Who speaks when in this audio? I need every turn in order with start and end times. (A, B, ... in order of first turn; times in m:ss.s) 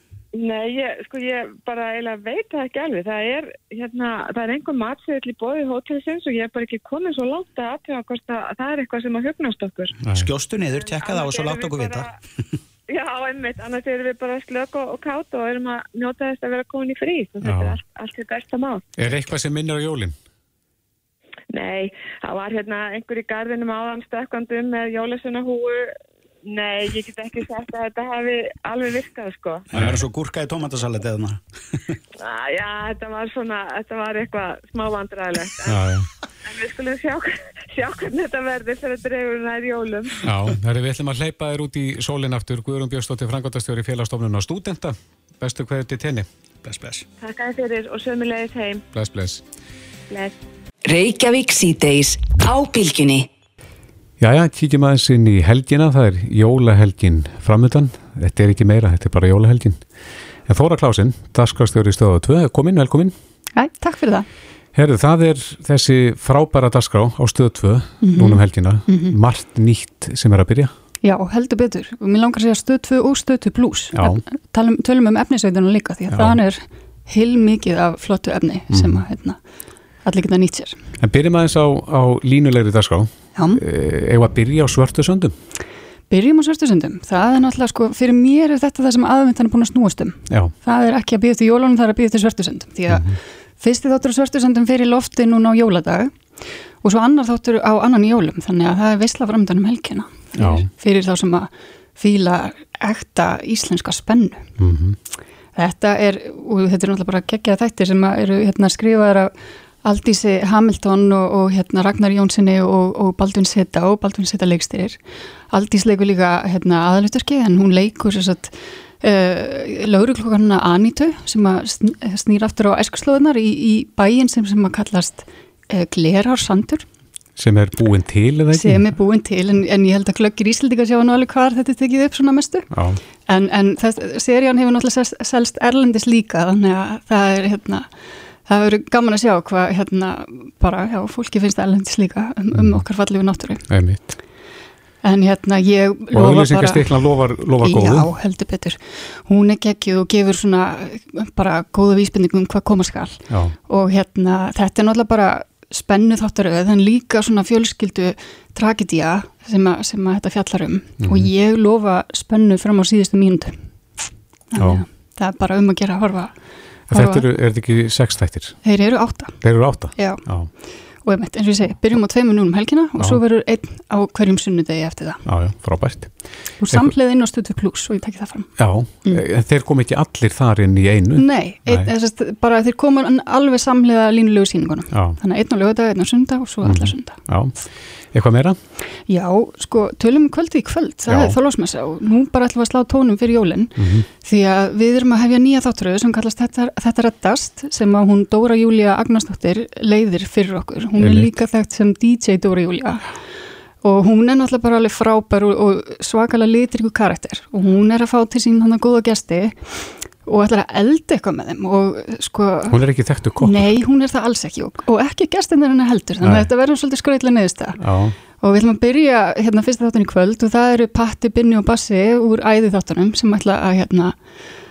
0:00.3-0:09.9 A
0:10.0-0:10.3 B
0:10.1-0:12.1 C
0:10.7-0:12.1 A
0:12.9-0:18.8 A
0:17.4-0:17.8 B
0:19.0-0:20.2 B
0:21.5-0:29.6 A
0:29.7-0:32.0 C
0:29.7-0:30.0 B
0:32.2-0:35.9 A
0:35.6-0:36.1 B
0:36.4-0:40.3 A
0:40.2-0:46.3 B
0:46.6-0:47.0 C
0:47.2-0:48.8 A
0:48.9-0:49.4 B
0:50.1-0:50.4 A
0:50.8-0:53.3 D
0:54.2-0:59.8 B
1:00.5-1:03.1 B
1:03.6-1:04.2 E
1:04.7-1:10.7 B
1:08.0-1:09.2 E
1:11.0-1:19.4 E
1:13.9-1:14.2 B
1:16.1-1:16.4 B
1:18.7-1:19.0 B
1:20.0-1:20.8 E
1:21.0-1:25.3 B
1:23.4-1:23.6 E
1:26.1-1:44.6 E
1:32.9-1:33.2 B
1:40.4-1:40.7 B
1:44.6-1:45.0 B
1:45.6-2:06.8 E
2:07.4-2:08.8 B
2:08.5-2:12.7 E
2:12.7-2:13.0 B
2:13.3-2:23.7 E
2:22.5-2:22.8 B
2:23.7-2:24.1 B
2:25.0-2:43.6 E
2:26.1-2:28.1 B
2:33.3-2:33.5 B
2:41.0-2:41.3 B
2:44.5-2:46.3 E
2:44.6-2:44.8 B
2:46.9-2:48.6 B
2:46.9-2:47.3 E
2:48.6-2:49.4 E
2:49.4-2:50.5 B
2:49.9-2:50.3 E
2:51.0-2:55.2 E
2:55.2-2:56.9 B
2:56.6-2:59.2 E
2:58.6-3:01.9 B
3:01.1-3:07.3 E
3:04.9-3:05.2 B
3:06.6-3:07.6 B
3:08.1-3:08.6 B
3:09.1-3:23.2 E
3:11.1-3:11.4 B
3:13.8-3:14.0 B
3:21.0-3:21.3 B
3:23.8-3:32.8 E
3:32.7-3:33.7 B
3:33.4-3:37.8 E
3:36.2-3:36.5 B
3:37.8-3:38.2 B
3:38.4-3:44.2 E